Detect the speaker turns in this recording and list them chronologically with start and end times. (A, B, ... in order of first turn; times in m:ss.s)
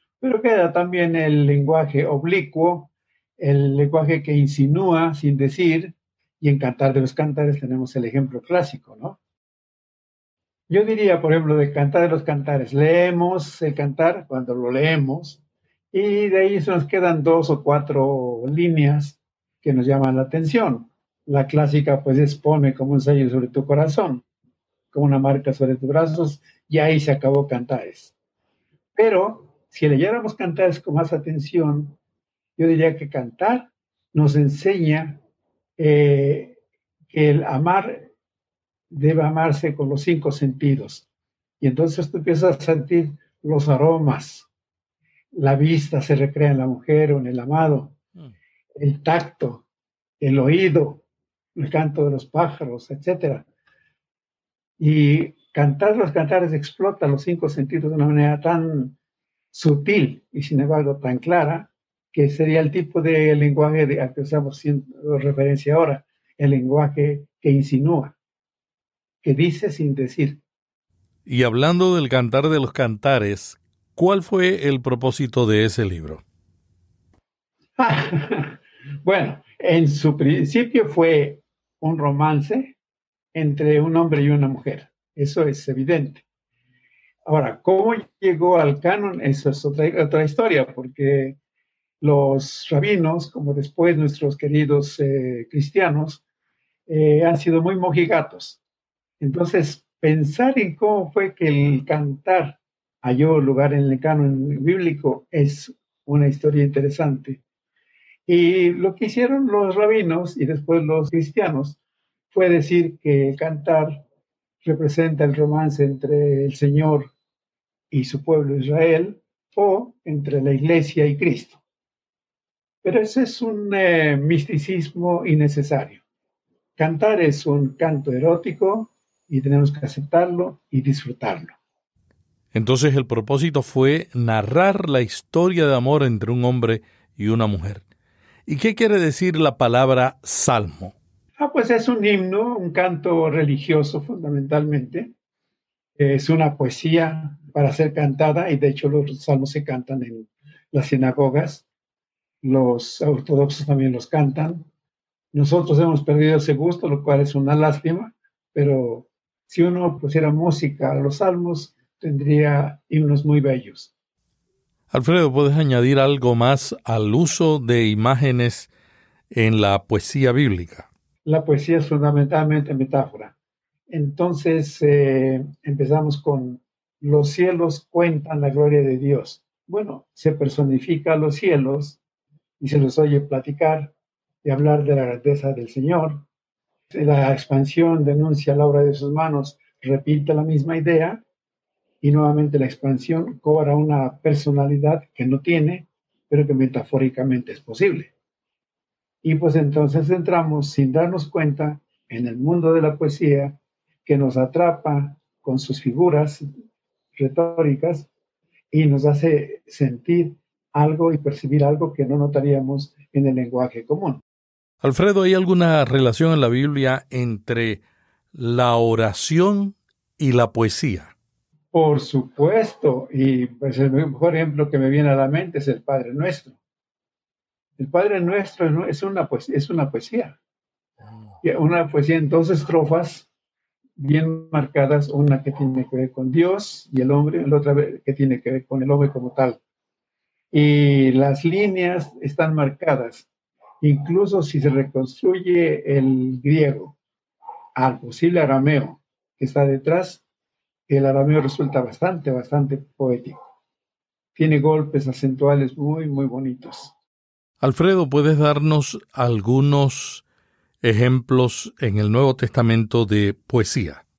0:00.2-0:09.2 A
0:10.7-0:15.4 A
0:15.9-0:24.2 A
0:24.9-0:28.1 A
0:28.9-0:32.0 A
0:32.6-0:35.2 A
0:35.8-0:36.6 A
0:37.1-0:38.1 A
0:38.9-0:41.0 A
0:41.6-0:44.5 A
0:45.3-0:48.0 A
0:48.8-0:49.6 A
0:50.2-0:51.0 A
0:51.6-0:53.4 A
0:54.8-0:59.0 A
0:59.5-1:08.1 A
1:09.2-1:10.4 A
1:11.2-1:16.2 B
1:17.8-1:22.7 A
1:23.3-1:26.2 A
1:27.2-1:31.4 A
1:32.0-1:36.2 A
1:36.9-1:38.6 A
1:39.2-1:47.4 A
1:48.3-1:51.8 A
1:52.3-1:54.0 A
1:54.6-1:57.1 A
1:57.9-2:01.6 A
2:02.8-2:06.0 A
2:06.8-2:11.6 A
2:12.5-2:17.8 B
2:18.4-2:20.9 B
2:21.4-2:25.1 A
2:26.0-2:31.6 A
2:32.4-2:34.6 A
2:35.3-2:43.9 A
2:44.9-2:48.7 B
2:49.3-2:50.9 B
2:51.2-2:53.3 A
2:53.9-3:02.0 A
3:02.6-3:03.9 A
3:04.4-3:06.2 A
3:06.9-3:11.2 A
3:12.0-3:18.1 A
3:19.2-3:26.5 A
3:27.2-3:28.1 A
3:28.7-3:34.2 A
3:34.8-3:37.8 B
3:38.3-3:41.1 B
3:41.7-3:46.5 A
3:47.8-3:50.4 A
3:51.4-3:53.3 A
3:54.0-3:59.6 A
4:00.5-4:03.3 A
4:03.8-4:07.0 A
4:07.8-4:10.2 A
4:10.9-4:13.4 A
4:14.3-4:16.9 A
4:17.6-4:20.2 B
4:20.8-4:24.0 B